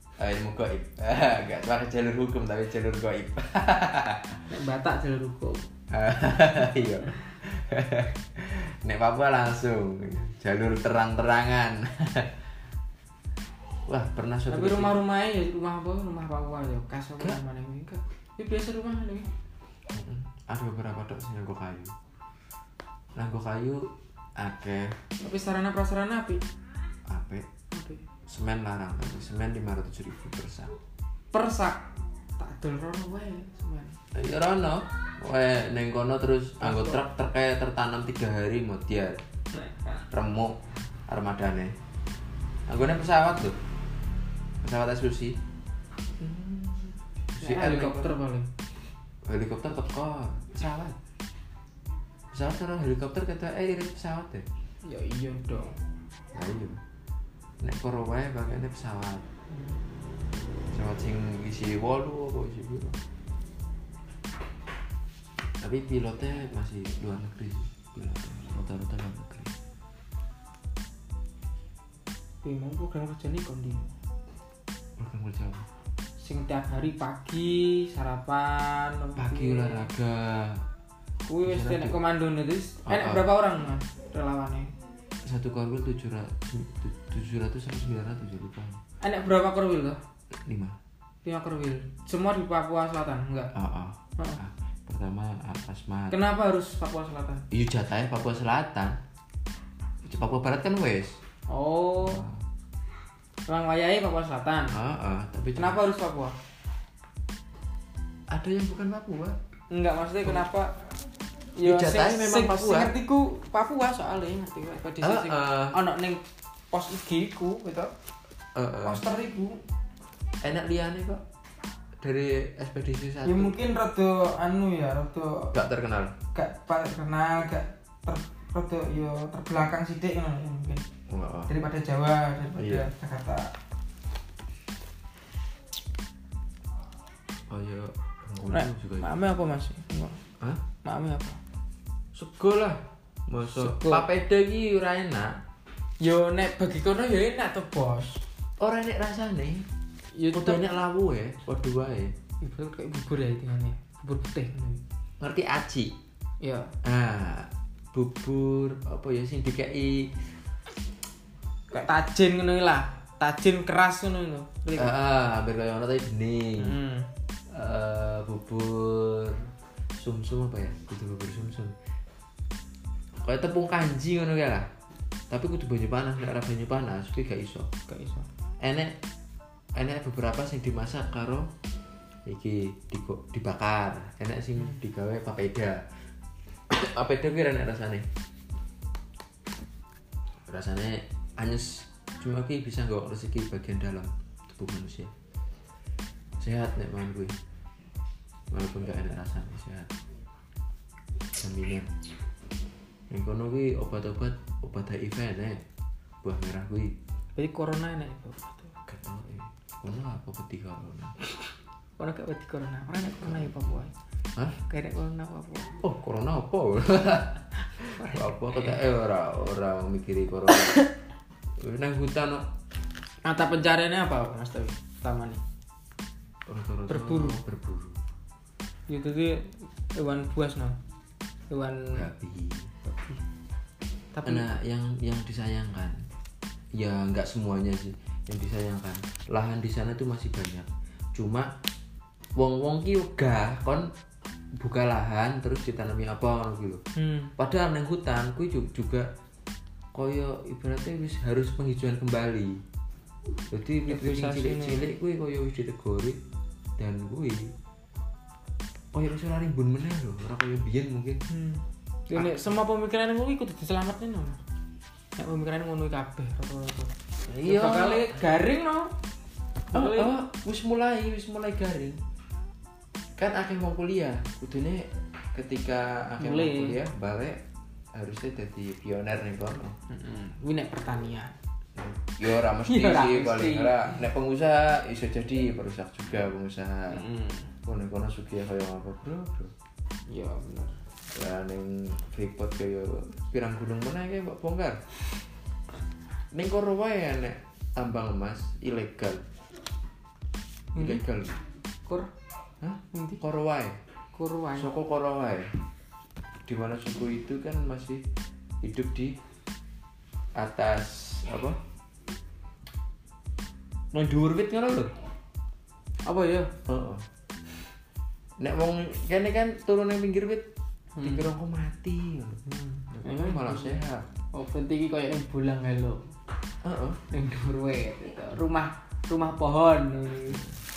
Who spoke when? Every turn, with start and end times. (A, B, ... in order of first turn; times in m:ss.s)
0:00.2-0:04.4 A
0:04.5-0:05.7 B
0:05.9-0:12.3 A
0:13.9-0:15.0 A
0:14.5-0:19.3 B
0:19.9-0:22.0 A
0:23.2-0:25.0 A
0:25.2-0:26.4 B
0:27.1-0:27.5 A
0:27.7-0:28.0 B
0:28.3-0:30.8 A
0:31.3-0:34.0 B
0:34.1-0:39.2 A
0:36.6-0:37.0 B
0:39.6-0:40.0 B
0:40.1-0:41.8 A
0:42.7-0:43.6 A
0:44.6-0:45.4 A
0:46.2-0:48.5 B
0:47.3-0:48.2 A
0:49.3-0:50.9 A
0:52.3-0:54.5 A
0:54.8-0:55.8 B
0:56.3-0:56.8 A
0:57.6-0:59.3 A
1:00.7-1:03.0 A
1:05.6-1:09.6 A
1:12.4-1:13.9 B
1:15.0-1:15.7 A
1:16.2-1:19.9 B
1:19.2-1:20.6 A
1:21.3-1:24.7 B
1:21.4-1:22.0 A
1:22.9-1:23.3 A
1:25.2-1:28.8 A
1:29.0-1:30.0 B
1:30.3-1:30.8 A
1:31.2-1:33.5 B
1:33.5-1:36.2 A
1:36.1-1:37.5 B
1:37.5-1:39.0 A
1:40.0-1:41.2 A
1:41.5-1:42.2 B
1:42.0-1:42.4 A
1:43.5-1:44.8 B
1:44.7-1:45.8 A
1:45.6-1:46.4 B
1:48.3-1:49.4 A
1:49.7-1:50.8 B
1:51.6-1:57.9 B
1:51.6-1:52.9 A
1:55.0-1:55.8 A
1:58.6-1:59.1 A
1:58.8-1:59.6 B
2:00.4-2:01.2 A
2:02.0-2:03.6 A
2:03.2-2:05.6 B
2:05.5-2:06.2 A
2:06.4-2:10.8 B
2:11.1-2:11.5 A
2:11.5-2:13.5 B
2:12.6-2:12.9 A
2:17.5-2:19.1 A
2:18.5-2:20.2 B
2:20.8-2:21.4 B
2:22.1-2:25.4 A
2:23.5-2:24.0 B
2:26.0-2:28.2 B
2:28.6-2:29.7 A
2:30.1-2:30.6 B
2:30.3-2:32.1 A
2:32.4-2:34.8 B
2:35.2-2:36.0 A
2:36.4-2:36.7 B
2:36.8-2:40.3 A
2:41.7-2:44.9 B
2:44.8-2:46.8 A
2:46.6-2:47.1 B
2:47.5-2:51.8 A
2:53.2-2:54.7 A
2:55.3-2:57.7 A
2:57.9-2:58.3 B
2:58.6-2:59.0 A
2:59.8-3:01.5 A
3:02.3-3:05.9 A
3:06.7-3:08.1 A
3:10.5-3:15.1 A
3:16.4-3:17.4 A
3:18.5-3:19.9 A
3:21.4-3:21.9 A
3:23.1-3:25.6 A
3:26.2-3:27.0 A
3:27.4-3:28.8 B
3:28.9-3:31.2 A
3:32.0-3:33.9 B
3:33.2-3:33.5 A
3:34.6-3:35.8 B
3:35.8-3:40.8 A
3:37.8-3:38.8 B
3:40.5-3:40.9 B
3:41.6-3:42.5 A
3:43.2-3:45.4 B
3:46.5-3:48.0 A
3:46.9-3:47.4 B
3:48.9-3:50.8 B
3:51.5-3:52.0 B
3:51.9-3:52.7 A
3:52.8-3:53.2 B
3:54.1-3:54.5 B
3:54.2-3:56.1 A
3:56.7-4:01.5 A
4:02.4-4:03.9 A
4:04.6-4:06.8 A
4:07.0-4:07.3 B
4:07.4-4:09.1 A
4:09.9-4:12.6 A
4:13.5-4:16.2 A
4:13.9-4:14.9 B
4:16.8-4:17.5 A
4:18.9-4:21.2 A
4:21.3-4:24.4 B
4:22.1-4:22.5 A
4:25.2-4:26.9 B
4:27.2-4:28.3 A
4:27.4-4:29.0 B
4:29.7-4:30.2 B
4:29.7-4:32.0 A
4:33.2-4:37.4 A
4:36.2-4:36.8 B
4:38.0-4:39.8 A
4:39.9-4:41.4 B
4:41.8-4:47.0 A
4:42.6-4:43.9 B
4:46.9-4:47.5 B
4:47.6-4:49.5 A
4:50.1-4:50.8 B
4:51.1-4:54.8 A
4:56.3-4:59.2 A
5:00.8-5:01.0 B
5:00.8-5:01.4 A
5:02.6-5:03.8 A
5:02.9-5:03.2 B
5:04.1-5:04.7 B
5:04.6-5:05.5 A
5:06.5-5:08.1 A
5:08.6-5:09.2 A
5:10.4-5:11.6 A
5:13.9-5:15.0 A
5:16.0-5:16.5 B
5:16.6-5:17.1 A
5:18.4-5:20.5 A
5:21.0-5:21.2 B
5:21.0-5:24.1 A
5:22.5-5:23.8 B
5:24.3-5:26.1 B
5:26.6-5:27.0 A
5:27.1-5:30.5 B